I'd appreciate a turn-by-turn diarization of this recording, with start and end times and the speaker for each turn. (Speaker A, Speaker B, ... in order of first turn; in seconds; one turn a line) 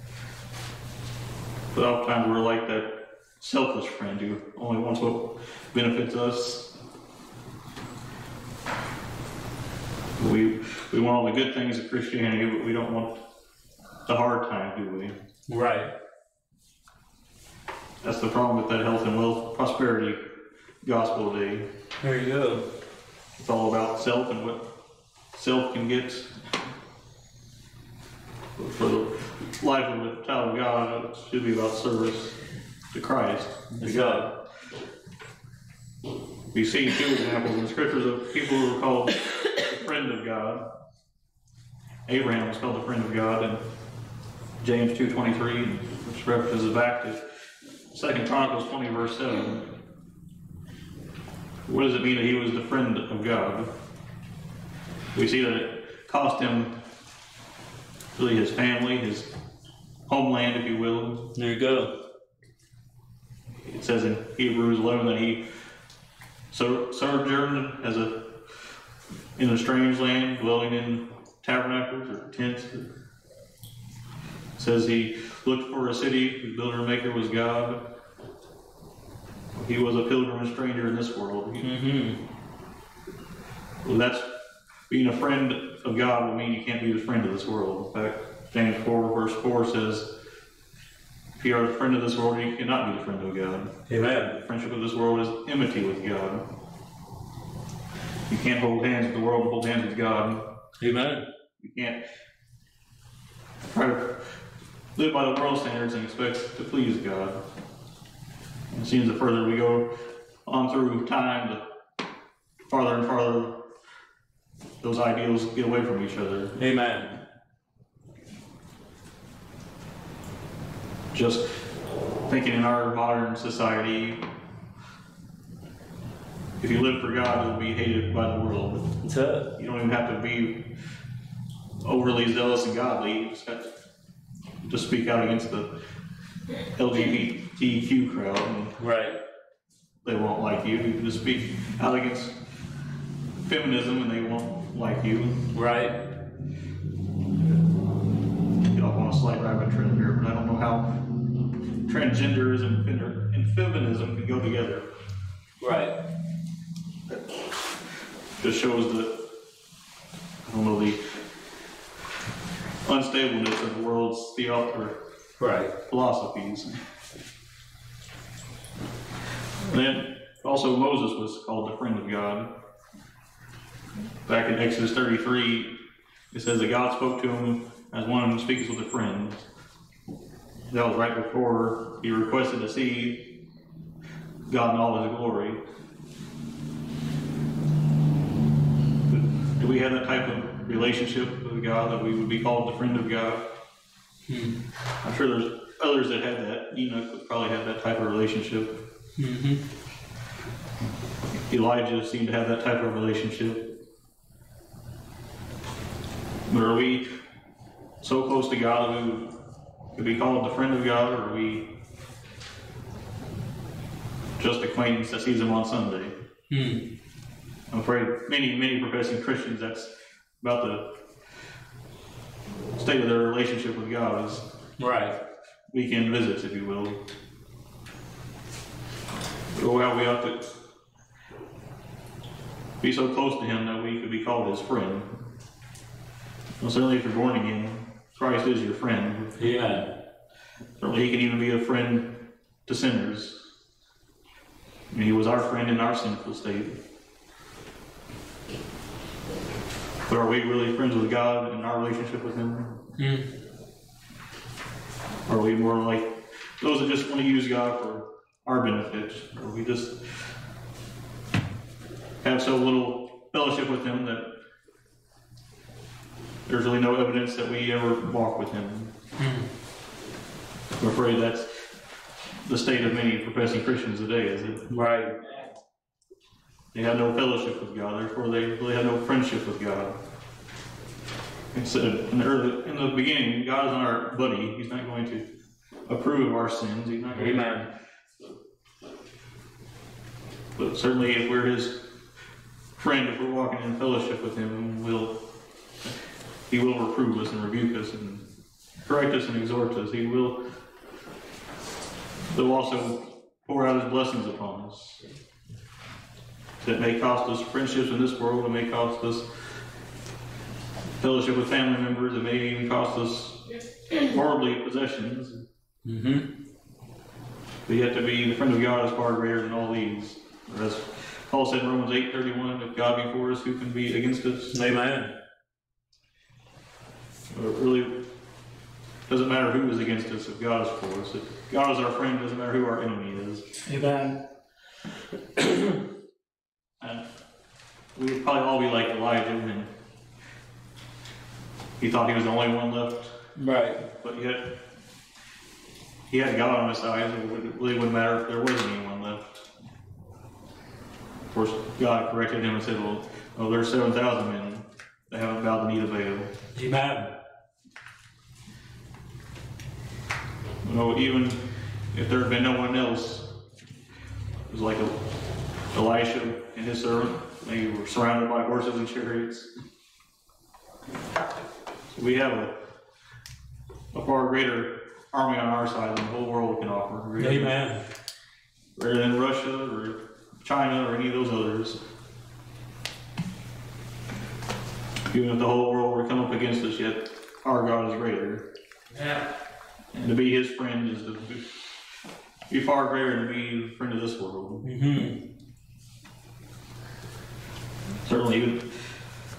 Speaker A: 1.7-6.7
Speaker A: 10.2-13.2
Speaker A: 14.1-15.2
Speaker B: 15.5-15.9
Speaker A: 18.0-20.2
Speaker A: 20.8-21.7
Speaker B: 22.0-22.6
Speaker A: 23.4-24.6
Speaker A: 25.3-26.3
Speaker A: 28.6-32.4
Speaker A: 32.9-34.3
Speaker B: 33.8-34.3
Speaker A: 36.5-40.6
Speaker A: 42.1-43.6
Speaker A: 44.6-47.2
Speaker A: 47.9-49.7
Speaker A: 51.7-53.7
Speaker A: 55.1-56.7
Speaker A: 58.2-59.3
Speaker A: 60.1-61.3
Speaker B: 61.4-61.9
Speaker A: 63.6-65.4
Speaker A: 66.5-68.3
Speaker A: 69.4-72.9
Speaker A: 74.6-77.8
Speaker A: 79.5-81.7
Speaker B: 81.6-82.2
Speaker A: 83.8-84.3
Speaker A: 84.9-90.1
Speaker A: 91.4-96.5
Speaker B: 93.9-94.3
Speaker A: 98.3-100.5
Speaker B: 100.8-101.2
Speaker A: 101.6-102.0
Speaker A: 103.7-104.2
Speaker A: 105.0-107.4
Speaker A: 108.7-109.9
Speaker A: 110.5-111.6
Speaker A: 112.7-113.6
Speaker A: 114.8-116.6
Speaker B: 116.6-117.1
Speaker A: 121.1-121.5
Speaker A: 122.3-124.2
Speaker A: 126.6-129.0
Speaker B: 129.0-129.5
Speaker A: 129.5-130.7
Speaker A: 131.8-133.7
Speaker A: 134.6-135.7
Speaker A: 136.7-138.8
Speaker B: 138.8-139.2
Speaker A: 140.0-142.4
Speaker A: 143.4-145.5
Speaker B: 145.5-146.0
Speaker A: 148.7-151.0
Speaker A: 151.8-154.9
Speaker B: 155.6-155.9
Speaker A: 158.4-159.2
Speaker A: 160.4-161.1
Speaker A: 162.8-165.0
Speaker B: 165.4-165.7
Speaker A: 165.9-166.8
Speaker A: 169.6-172.5
Speaker A: 174.2-175.8
Speaker A: 176.3-179.4
Speaker A: 180.7-183.4
Speaker A: 184.5-185.6
Speaker A: 189.1-193.4
Speaker B: 194.3-194.5
Speaker A: 195.0-198.8
Speaker B: 199.2-199.6
Speaker A: 201.4-203.7
Speaker A: 206.5-207.1
Speaker A: 208.0-209.3
Speaker A: 209.9-211.7
Speaker A: 214.4-216.2
Speaker B: 216.5-216.8
Speaker A: 217.7-220.9
Speaker A: 222.8-224.5
Speaker B: 224.8-225.2
Speaker A: 225.7-227.0
Speaker A: 229.5-230.4
Speaker A: 232.8-235.1
Speaker A: 236.6-239.5
Speaker B: 239.4-239.9
Speaker A: 240.8-243.4
Speaker A: 244.9-246.8
Speaker A: 250.0-252.8
Speaker B: 253.0-253.3
Speaker A: 255.3-260.2
Speaker A: 262.2-264.3
Speaker A: 266.5-268.9
Speaker B: 269.2-269.4
Speaker A: 270.8-271.6
Speaker A: 272.4-274.7
Speaker B: 274.7-275.1
Speaker A: 276.7-280.0
Speaker A: 281.5-285.3
Speaker A: 285.9-287.5
Speaker B: 287.1-287.7
Speaker A: 290.6-291.9
Speaker A: 292.8-295.2
Speaker A: 296.5-298.2
Speaker A: 298.9-300.4
Speaker A: 302.3-305.0
Speaker A: 306.6-309.3
Speaker A: 311.0-315.4
Speaker B: 315.9-316.3
Speaker A: 317.7-324.6
Speaker B: 324.5-325.1
Speaker A: 327.3-328.0
Speaker A: 329.1-333.5
Speaker B: 333.7-334.2
Speaker B: 335.4-335.8
Speaker A: 336.8-337.1
Speaker A: 338.0-339.7
Speaker A: 341.8-343.2
Speaker B: 343.4-343.8
Speaker A: 344.0-344.5
Speaker A: 346.1-349.4
Speaker A: 351.3-356.3
Speaker B: 356.6-357.1
Speaker A: 360.6-361.4
Speaker A: 361.9-363.3
Speaker A: 364.5-365.0
Speaker A: 365.7-369.5
Speaker A: 371.9-372.5
Speaker A: 373.9-377.6
Speaker B: 377.2-377.8
Speaker A: 378.8-381.8
Speaker A: 385.1-388.4
Speaker A: 389.9-391.4
Speaker A: 392.5-394.7
Speaker B: 394.6-395.2
Speaker A: 398.1-398.8